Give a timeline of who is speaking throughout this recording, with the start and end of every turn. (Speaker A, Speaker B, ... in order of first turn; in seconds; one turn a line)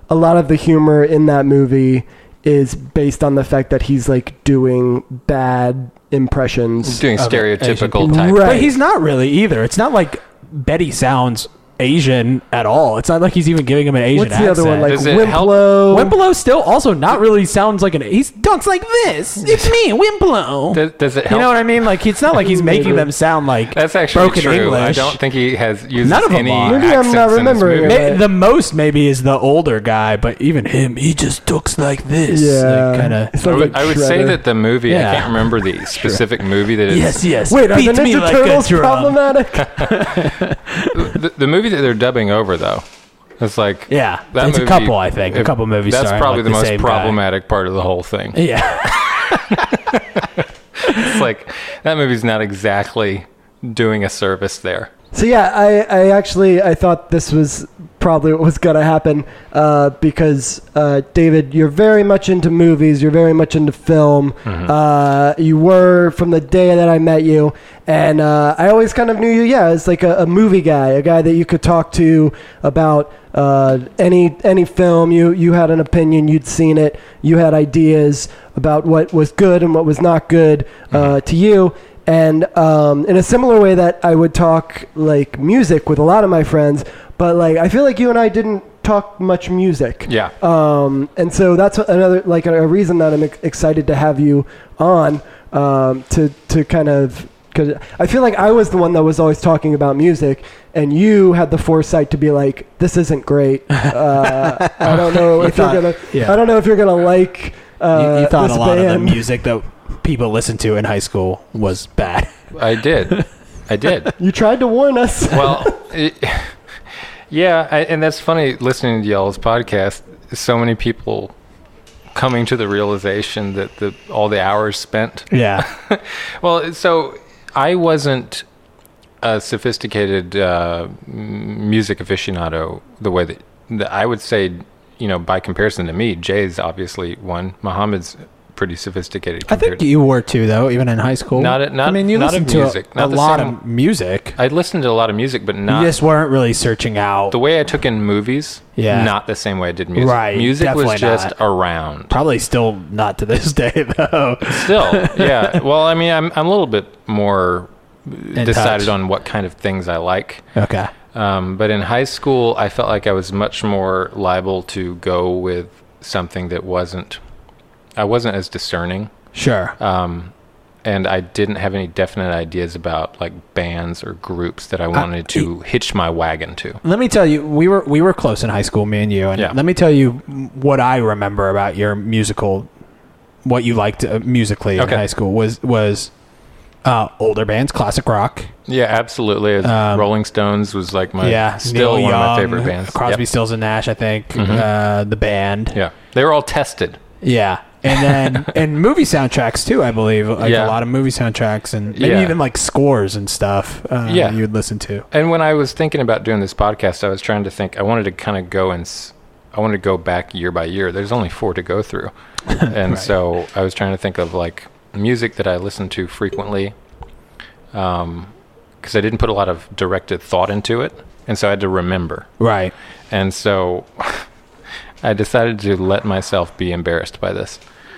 Speaker A: 0.1-7.0
Speaker B: 6.8-8.6
Speaker C: 7.1-15.0
Speaker A: 8.0-8.7
Speaker A: 14.1-16.1
Speaker B: 14.8-15.7
Speaker C: 15.9-25.2
Speaker B: 19.4-19.7
Speaker B: 20.7-21.9
Speaker A: 22.4-23.1
Speaker B: 23.7-28.0
Speaker C: 26.0-26.8
Speaker A: 26.7-28.2
Speaker C: 27.8-33.7
Speaker A: 32.3-34.4
Speaker B: 33.4-37.3
Speaker C: 34.9-36.2
Speaker C: 36.9-41.2
Speaker A: 37.5-39.9
Speaker B: 39.8-40.0
Speaker B: 40.9-42.8
Speaker B: 43.4-54.9
Speaker C: 43.9-47.2
Speaker C: 48.3-49.7
Speaker C: 50.9-51.2
Speaker A: 55.1-109.3
Speaker B: 64.5-64.7
Speaker B: 90.0-90.3
Speaker C: 103.9-106.4
Speaker C: 107.9-112.3
Speaker B: 112.5-114.1
Speaker A: 114.2-115.7
Speaker B: 115.3-116.5
Speaker B: 117.3-121.3
Speaker B: 122.1-128.4
Speaker C: 125.3-125.7
Speaker B: 129.2-139.8
Speaker C: 139.5-144.3
Speaker B: 141.3-143.6
Speaker B: 144.3-145.9
Speaker C: 145.7-147.3
Speaker B: 147.3-152.1
Speaker C: 148.8-149.1
Speaker C: 149.9-151.3
Speaker C: 152.1-155.6
Speaker B: 154.4-160.4
Speaker C: 158.3-158.9
Speaker C: 160.6-160.9
Speaker B: 161.1-167.2
Speaker B: 168.0-169.1
Speaker C: 169.3-169.8
Speaker B: 169.8-170.3
Speaker B: 170.8-176.8
Speaker C: 174.9-175.5
Speaker C: 176.8-182.7
Speaker C: 183.4-186.1
Speaker B: 184.8-185.0
Speaker C: 186.8-188.5
Speaker B: 188.7-193.2
Speaker C: 189.6-190.1
Speaker C: 191.2-195.8
Speaker B: 194.3-194.7
Speaker B: 195.7-197.0
Speaker C: 197.2-205.1
Speaker B: 198.1-198.4
Speaker B: 200.4-200.8
Speaker B: 201.9-202.4
Speaker B: 204.1-204.4
Speaker B: 205.1-216.7
Speaker B: 217.7-222.3
Speaker C: 222.4-222.7
Speaker B: 223.1-224.2
Speaker B: 225.0-227.6